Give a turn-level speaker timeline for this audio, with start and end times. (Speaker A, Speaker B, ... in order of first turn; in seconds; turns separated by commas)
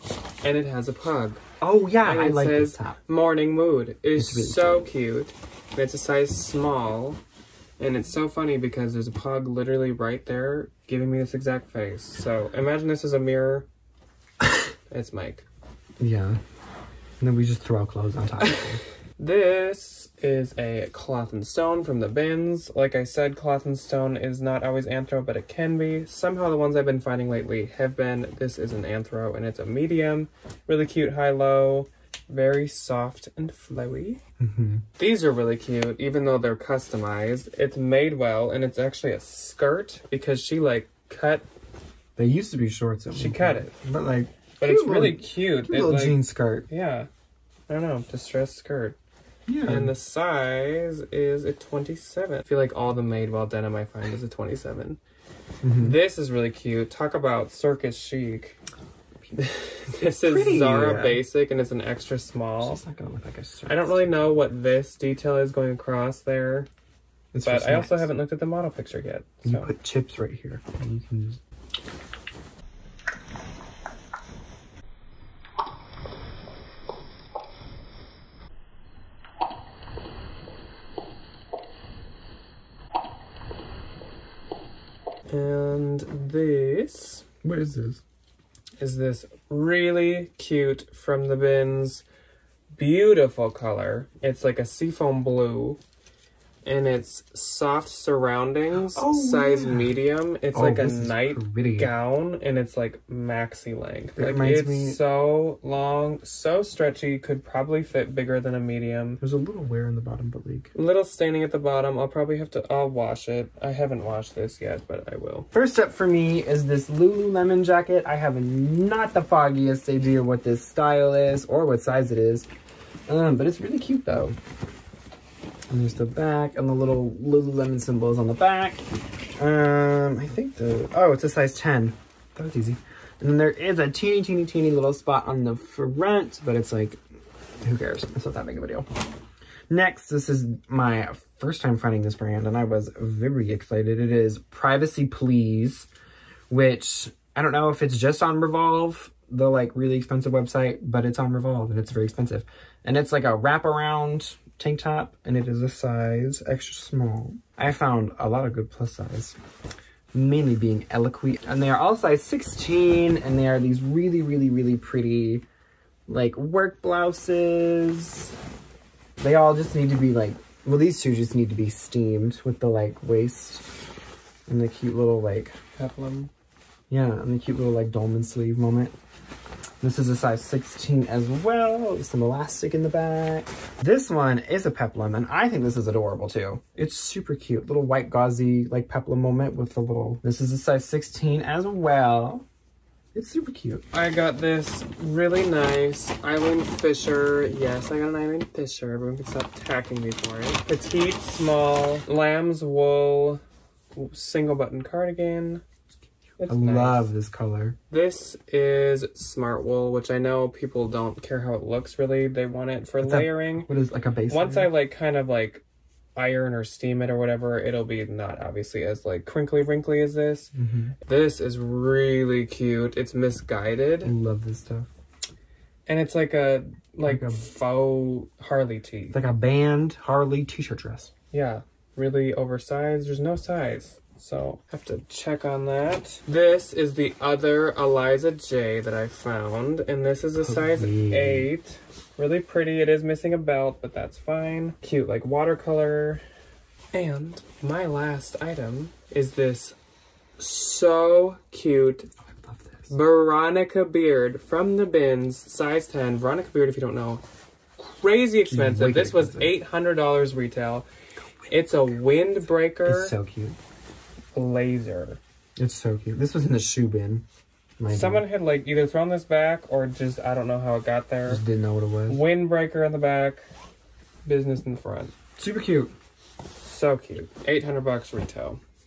Speaker A: 0.4-1.4, Speaker B: 1.6-3.0, Speaker A: 2.0-7.2, Speaker B: 4.2-4.9, Speaker A: 7.8-13.7, Speaker A: 14.9-15.4, Speaker B: 16.0-16.4, Speaker B: 17.2-18.8, Speaker A: 19.2-34.2, Speaker B: 34.4-34.8, Speaker A: 35.0-41.5, Speaker B: 42.2-46.7, Speaker A: 43.1-43.7, Speaker A: 44.6-47.1, Speaker A: 47.7-49.0, Speaker B: 49.5-49.9, Speaker A: 49.6-55.0, Speaker B: 55.6-56.0, Speaker A: 55.8-58.6, Speaker A: 59.3-62.8, Speaker B: 60.0-61.2, Speaker B: 62.6-64.4, Speaker A: 63.6-66.7, Speaker B: 67.3-68.1, Speaker A: 67.4-69.7, Speaker B: 69.4-71.4, Speaker A: 85.3-87.2, Speaker B: 87.4-88.0, Speaker A: 88.8-92.0, Speaker A: 92.7-95.8, Speaker A: 96.6-109.2, Speaker B: 98.9-99.9, Speaker B: 100.5-101.9, Speaker B: 104.2-105.0, Speaker B: 109.2-110.7, Speaker A: 110.7-115.5, Speaker B: 115.5-122.5, Speaker B: 123.1-124.3, Speaker B: 125.7-128.8, Speaker B: 129.4-137.0, Speaker B: 137.6-138.9, Speaker B: 139.7-145.9, Speaker B: 146.5-159.3, Speaker B: 160.1-165.4, Speaker B: 166.1-168.3, Speaker B: 169.2-173.6, Speaker B: 174.5-175.5, Speaker A: 175.8-176.3, Speaker B: 176.9-178.9, Speaker B: 179.8-192.4, Speaker B: 193.1-193.8, Speaker A: 193.9-203.4, Speaker A: 203.9-205.6, Speaker A: 206.4-207.1, Speaker B: 206.4-207.8, Speaker A: 207.9-213.7, Speaker B: 213.0-214.7, Speaker A: 214.3-215.6, Speaker A: 216.2-220.5, Speaker B: 220.5-220.9, Speaker A: 221.0-224.1, Speaker B: 224.0-224.9, Speaker A: 225.9-229.2, Speaker B: 227.0-227.4, Speaker B: 229.1-231.1, Speaker A: 231.3-246.2, Speaker B: 240.4-241.5, Speaker A: 246.9-249.8, Speaker A: 250.4-252.1, Speaker B: 252.3-252.9, Speaker A: 252.9-257.2, Speaker A: 257.8-260.9, Speaker B: 258.5-259.5, Speaker A: 261.5-263.1, Speaker B: 262.9-263.6, Speaker A: 264.3-265.2, Speaker B: 265.6-267.2, Speaker B: 267.8-268.2, Speaker A: 267.9-271.4, Speaker B: 271.3-272.2, Speaker A: 272.1-273.4, Speaker A: 274.2-275.1, Speaker B: 275.4-275.9, Speaker A: 276.6-278.6